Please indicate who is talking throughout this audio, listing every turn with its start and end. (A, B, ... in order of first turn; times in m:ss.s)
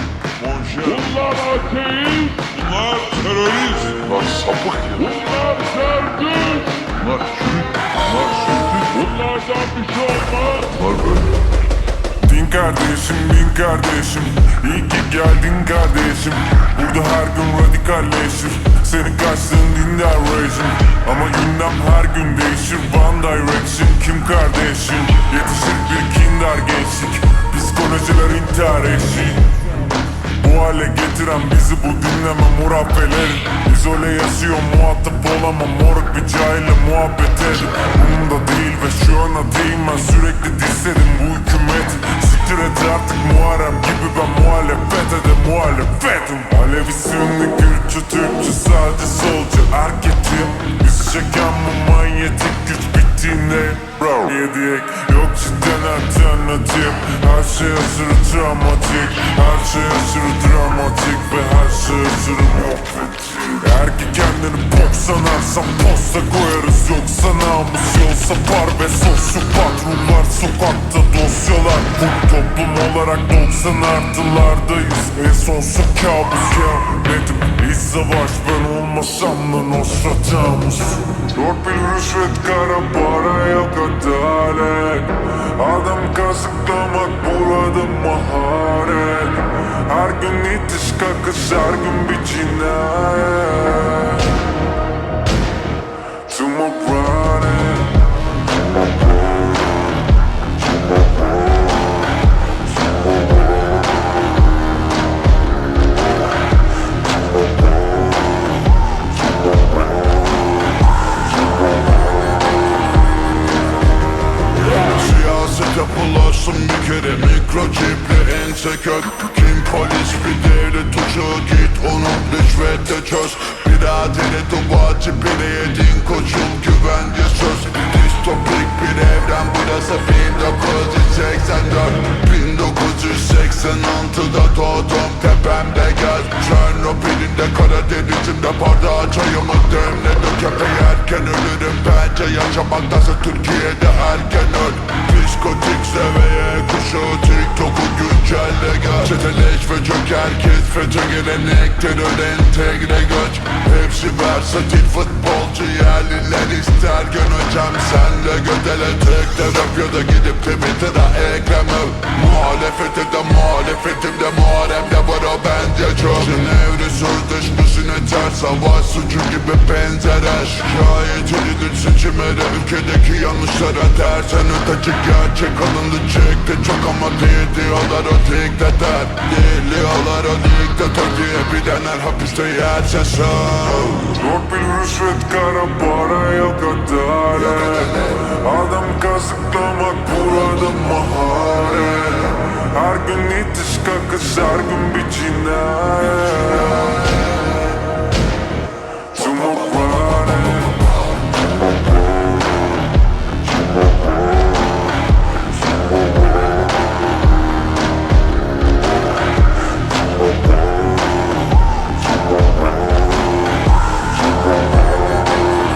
0:00.4-0:01.0 A
0:00.8-0:02.5 B
0:02.5-0:05.2 A
0:05.0-0:06.9 B
0:06.9-0:09.0 A
0:09.0-0:10.8 B
0:10.8-0:11.3 A
0:12.2-0:29.5 C
0:30.4-1:34.5 C
1:36.2-1:38.0 C
1:54.6-3:04.2 D
3:04.1-3:17.0 C
3:07.4-3:08.2 D
3:19.1-3:20.9 C